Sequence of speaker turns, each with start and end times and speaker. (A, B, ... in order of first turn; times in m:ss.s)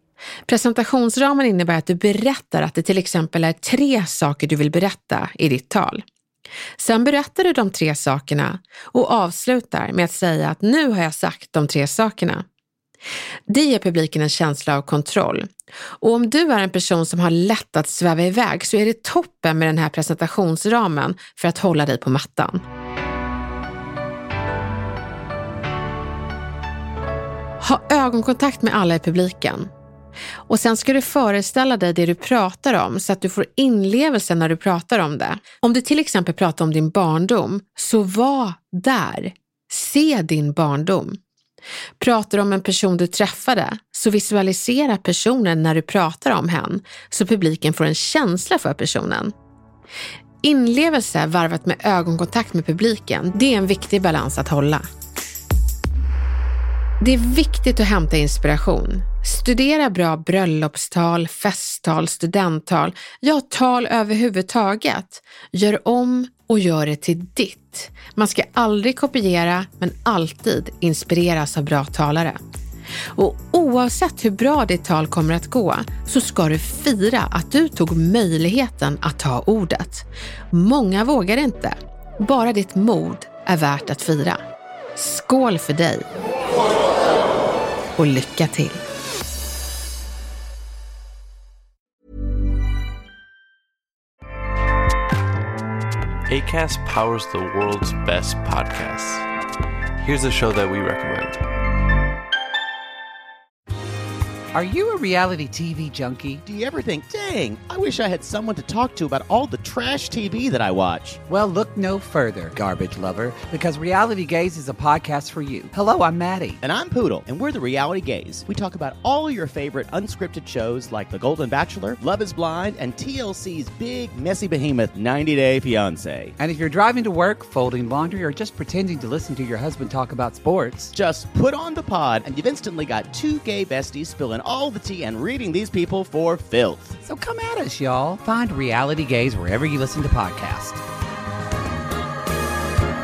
0:00.5-0:06.0 A
0:06.8-0:12.4 A
0:13.5-0:15.5 A
0:16.0-0:22.6 A
0:27.6-0:29.7 A
0:30.5-0:41.2 A
0:42.0-0:49.3 A
0:50.4-0:54.8 A
0:57.0-1:12.4 A
1:13.1-1:24.4 A
1:25.0-1:26.1 A
1:28.0-1:28.8 A
1:36.3-1:39.2 B
1:40.0-1:41.4 B
1:44.5-1:46.4 C
1:46.4-1:51.2 D
1:51.3-1:56.6 C
1:56.6-2:06.4 D
2:06.4-2:10.9 C
2:10.9-2:17.0 D
2:17.0-2:20.8 C